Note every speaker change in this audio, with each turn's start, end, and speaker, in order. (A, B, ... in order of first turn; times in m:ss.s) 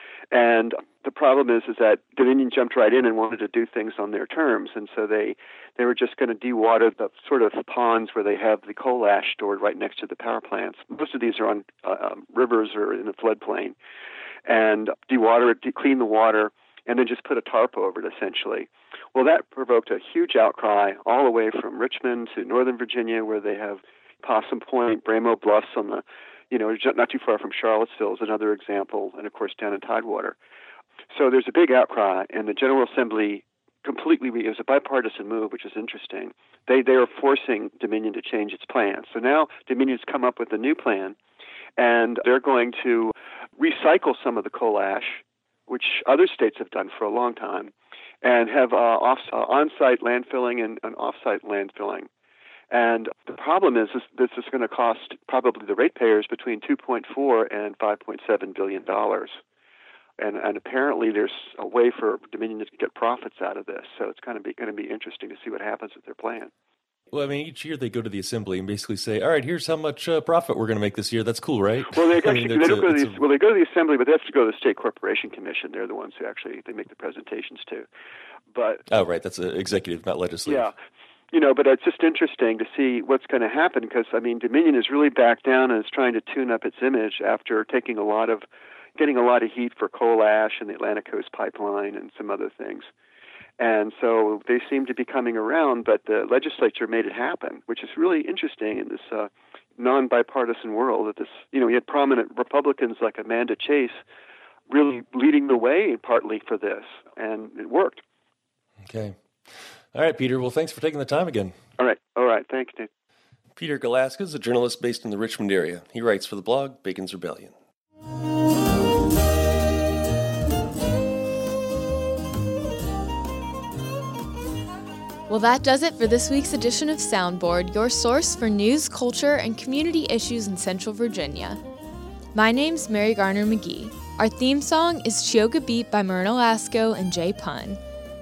0:00.3-0:13.8 A
0:14.5-0:30.4 A
0:31.1-0:41.2 A
0:41.8-0:52.1 A
0:52.7-0:59.4 A
1:00.2-1:06.5 A
1:07.1-1:13.2 B
1:11.9-1:17.9 A
1:18.5-1:18.8 A
1:18.9-1:20.7 B
1:20.5-1:20.7 A
1:21.3-1:28.4 A
1:29.0-1:32.9 A
1:33.6-1:44.0 A
1:44.7-1:48.0 A
1:48.8-1:49.2 B
1:49.9-1:51.6 B
1:51.8-1:52.9 A
1:53.6-1:57.6 B
2:05.3-2:11.6 C
2:12.4-2:17.8 C